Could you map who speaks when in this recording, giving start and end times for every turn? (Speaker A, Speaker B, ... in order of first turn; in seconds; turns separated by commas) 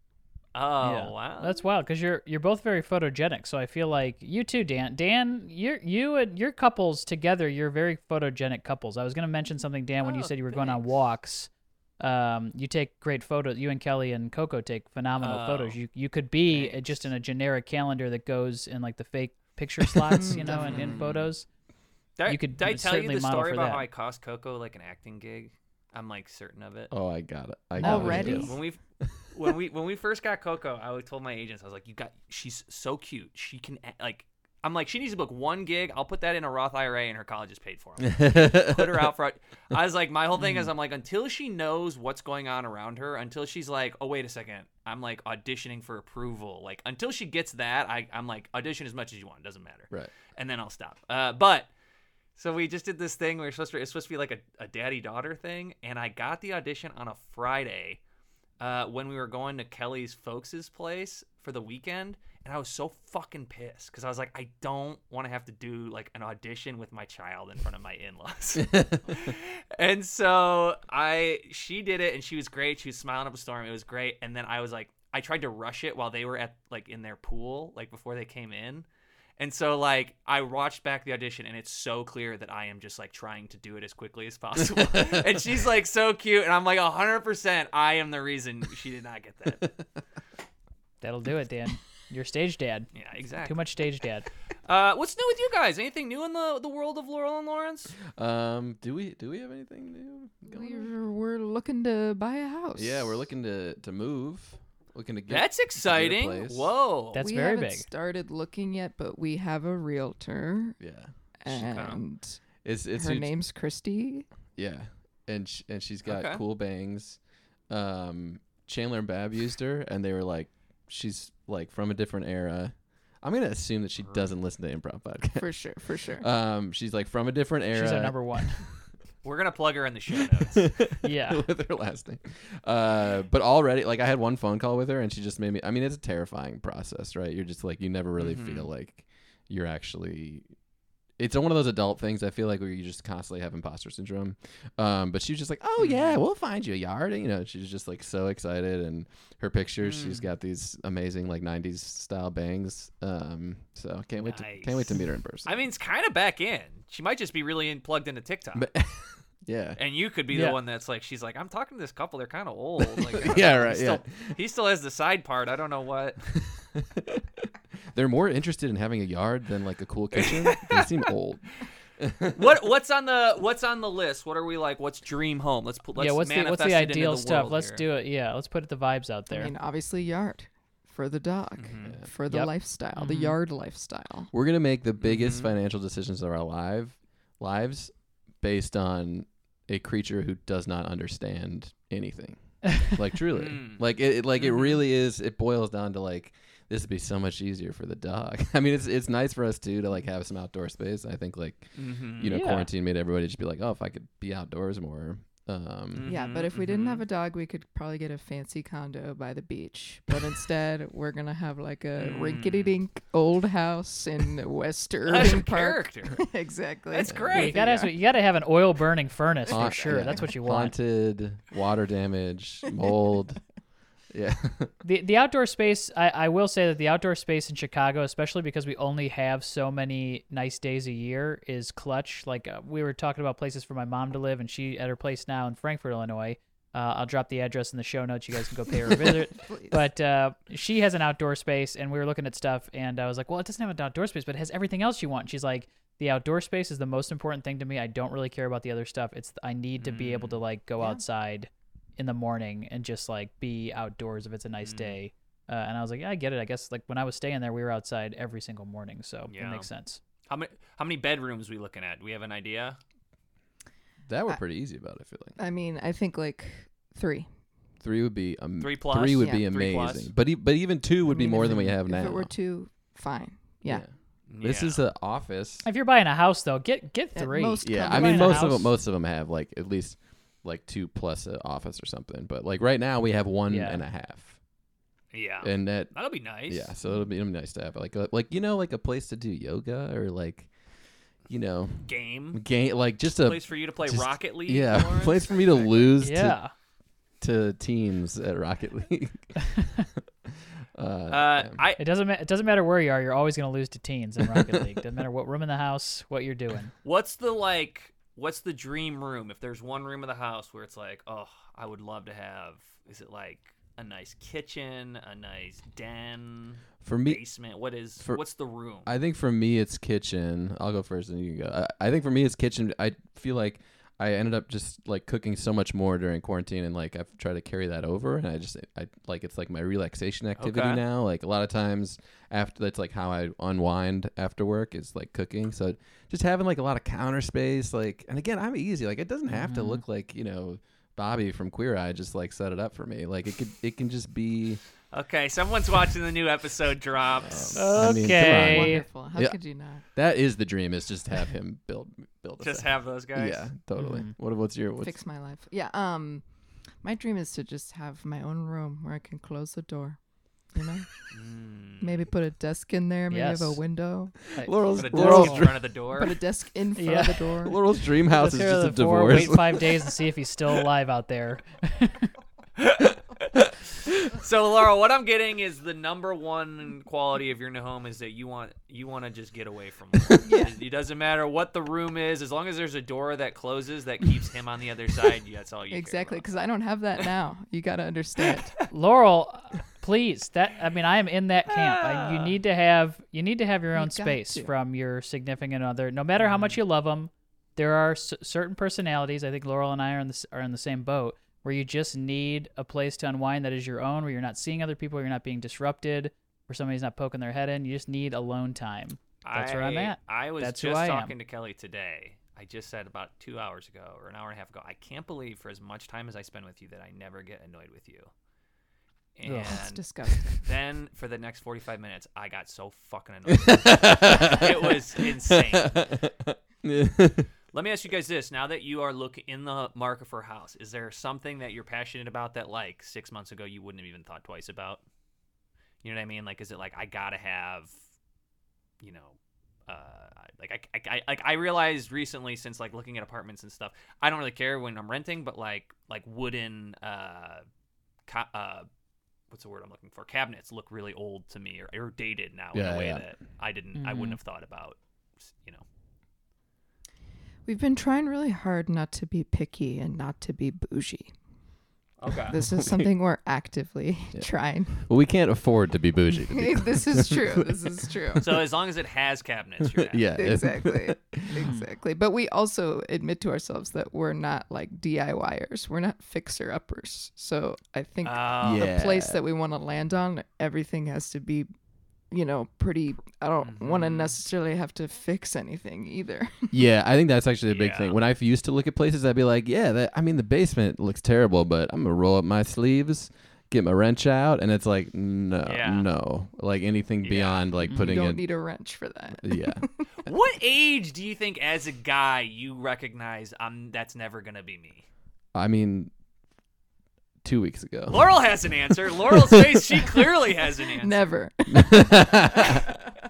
Speaker A: 0.6-1.6, Speaker B: 0.8-21.5, Speaker A: 10.0-10.8, Speaker A: 15.2-15.8, Speaker A: 16.5-17.1, Speaker C: 20.1-21.0, Speaker A: 20.3-21.3, Speaker A: 22.2-26.9, Speaker B: 22.3-23.9, Speaker D: 26.9-29.1, Speaker B: 27.8-28.3, Speaker C: 27.8-28.6, Speaker A: 27.8-28.8, Speaker A: 29.3-51.7, Speaker D: 38.0-39.1, Speaker B: 40.4-40.7, Speaker A: 52.4-58.0, Speaker A: 58.6-78.9, Speaker D: 68.6-69.3, Speaker A: 79.4-89.7, Speaker D: 84.7-85.3, Speaker B: 91.0-92.9, Speaker A: 92.9-93.6, Speaker B: 93.5-94.3, Speaker A: 94.7-98.0, Speaker D: 98.2-100.9, Speaker C: 100.5-103.2, Speaker D: 102.8-106.7, Speaker A: 105.3-107.2, Speaker B: 107.1-107.9, Speaker C: 107.2-110.8, Speaker D: 110.8-111.1, Speaker C: 111.4-112.4, Speaker A: 111.5-112.0, Speaker D: 112.6-113.3, Speaker C: 113.0-114.3, Speaker D: 114.6-125.5, Speaker A: 116.1-116.4, Speaker A: 124.0-124.3, Speaker C: 125.4-126.3, Speaker D: 126.2-128.6, Speaker B: 127.7-128.6, Speaker A: 129.2-130.7, Speaker D: 130.3-140.5, Speaker B: 131.0-131.5, Speaker A: 138.2-138.7, Speaker D: 141.2-155.5, Speaker A: 145.8-146.2, Speaker A: 149.8-150.3, Speaker A: 154.2-158.7, Speaker D: 158.6-159.8, Speaker A: 159.8-166.2, Speaker B: 160.3-160.6, Speaker D: 163.0-164.1, Speaker D: 166.6-167.3, Speaker D: 167.9-171.5, Speaker A: 170.1-171.1, Speaker D: 172.0-172.5, Speaker A: 172.3-177.8, Speaker B: 176.0-179.5, Speaker C: 179.3-184.3, Speaker A: 181.6-182.0, Speaker B: 182.3-183.4, Speaker D: 184.3-206.1, Speaker A: 185.0-185.5, Speaker A: 193.3-193.8, Speaker A: 194.4-194.8, Speaker A: 201.8-202.5, Speaker B: 202.3-202.7, Speaker A: 205.9-207.1, Speaker C: 206.1-217.9, Speaker A: 212.0-212.8, Speaker A: 215.1-216.2, Speaker A: 216.9-217.9, Speaker D: 217.1-217.4, Speaker B: 217.3-220.8, Speaker D: 219.5-223.4, Speaker D: 224.1-224.7, Speaker B: 224.8-260.0, Speaker C: 239.4-239.8, Speaker A: 249.8-250.4, Speaker A: 254.6-255.0, Speaker A: 259.3-259.7, Speaker A: 260.3-262.8, Speaker D: 264.1-265.4, Speaker C: 265.4-267.3, Speaker D: 267.8-272.3, Speaker A: 268.6-270.1, Speaker C: 271.1-273.9, Speaker B: 271.3-271.6, Speaker A: 274.3-274.8, Speaker D: 274.4-275.7, Speaker B: 275.6-278.7, Speaker C: 277.1-278.5, Speaker D: 277.6-284.4, Speaker B: 283.5-283.8, Speaker A: 285.1-286.7, Speaker D: 285.4-285.9, Speaker D: 286.5-290.5, Speaker D: 291.3-296.4, Speaker A: 291.9-292.4, Speaker A: 293.1-295.9, Speaker B: 296.0-296.5, Speaker D: 297.2-299.4, Speaker D: 300.8-301.6, Speaker A: 301.1-301.8, Speaker B: 301.8-306.7, Speaker D: 304.2-304.6, Speaker A: 306.8-318.9, Speaker D: 316.8-317.2, Speaker D: 318.9-344.6, Speaker A: 330.4-330.8, Speaker B: 339.3-339.8, Speaker A: 344.9-347.7, Speaker D: 347.2-349.4, Speaker B: 347.6-348.8, Speaker C: 348.0-349.8, Speaker D: 349.9-354.9, Speaker A: 352.4-353.5, Speaker B: 353.8-354.1, Speaker C: 354.8-356.2, Speaker C: 356.8-360.0, Speaker C: 360.5-360.9, Speaker A: 361.1-362.1, Speaker C: 361.8-364.2, Speaker B: 363.1-363.6, Speaker B: 364.3-365.4, Speaker D: 364.4-365.7, Speaker A: 364.8-366.2, Speaker C: 365.9-367.6, Speaker B: 366.8-367.4, Speaker D: 367.4-369.7, Speaker B: 368.1-372.1, Speaker A: 372.6-386.2, Speaker C: 380.2-380.6, Speaker C: 385.7-388.6, Speaker B: 388.7-411.1, Speaker A: 391.5-392.3, Speaker C: 393.8-394.5, Speaker A: 396.2-396.6, Speaker A: 409.2-418.1, Speaker A: 419.2-425.9, Speaker B: 419.2-419.6, Speaker C: 419.3-420.4, Speaker D: 423.3-427.3, Speaker A: 427.5-434.8, Speaker A: 435.8-437.7, Speaker A: 438.8-447.4, Speaker A: 448.1-448.7, Speaker A: 449.3-455.6, Speaker D: 452.5-453.1, Speaker B: 453.8-454.2, Speaker C: 457.5-461.1, Speaker A: 462.0-462.4, Speaker C: 462.3-464.9, Speaker D: 462.4-462.9, Speaker D: 464.8-468.4, Speaker C: 466.3-468.3, Speaker A: 468.2-470.1, Speaker D: 469.6-471.5, Speaker C: 470.2-481.5, Speaker B: 471.4-471.7, Speaker A: 478.0-478.7, Speaker D: 478.4-479.2, Speaker C: 482.1-486.5, Speaker A: 483.4-484.2, Speaker D: 486.5-498.2, Speaker A: 487.5-488.0, Speaker A: 495.4-495.9, Speaker A: 497.0-497.5, Speaker C: 497.7-499.9, Speaker D: 499.2-499.7, Speaker A: 500.1-504.9, Speaker D: 505.4-505.9, Speaker D: 507.2-508.2, Speaker A: 507.9-511.1, Speaker D: 508.9-509.9, Speaker C: 510.8-512.6, Speaker D: 511.5-512.7